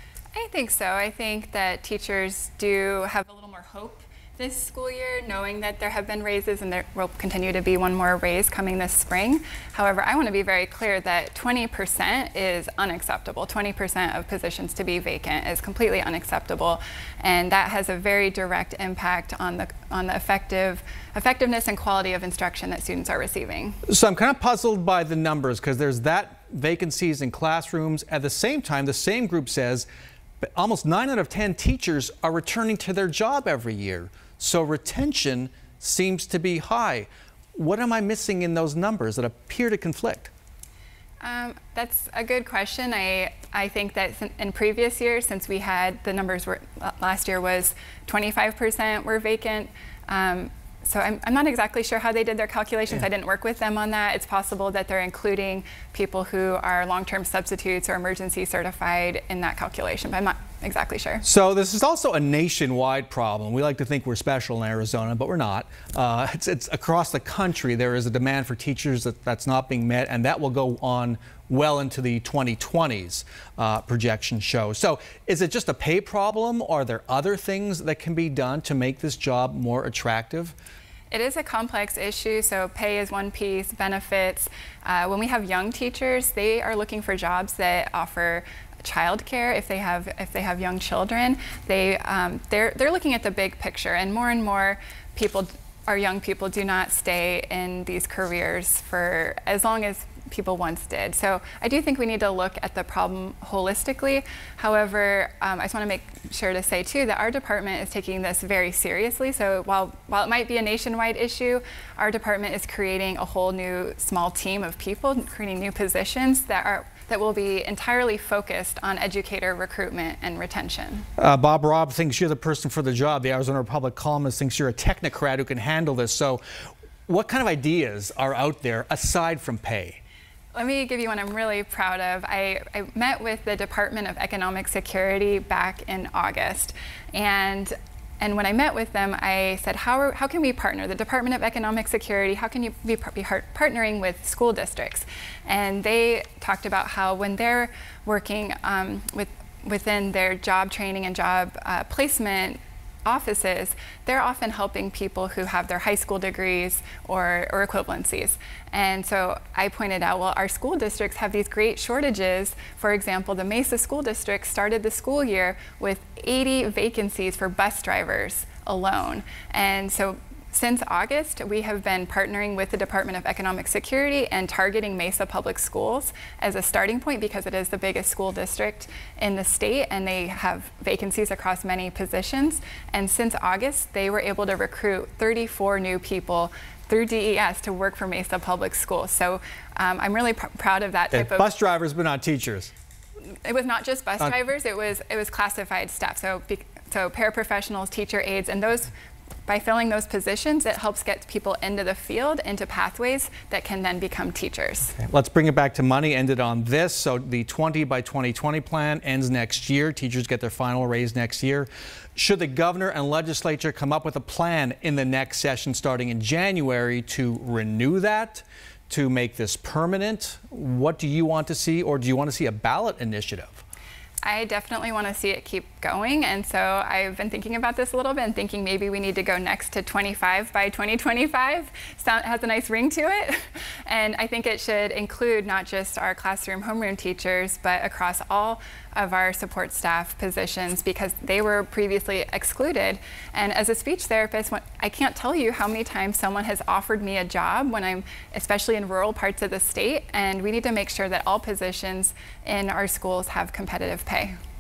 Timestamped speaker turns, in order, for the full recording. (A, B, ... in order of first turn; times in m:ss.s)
0:00.3-0:23.8 A
0:23.8-0:29.9 B
0:30.4-0:40.3 B
0:41.2-1:01.2 A
1:01.2-1:20.5 B
1:21.1-2:01.1 A
2:01.2-2:06.4 B
2:07.1-2:10.0 B
2:10.5-3:11.5 A
3:11.1-3:12.7 B
3:13.4-3:18.9 A
3:19.5-3:25.0 A
3:25.0-3:43.6 B
3:44.2-4:14.3 A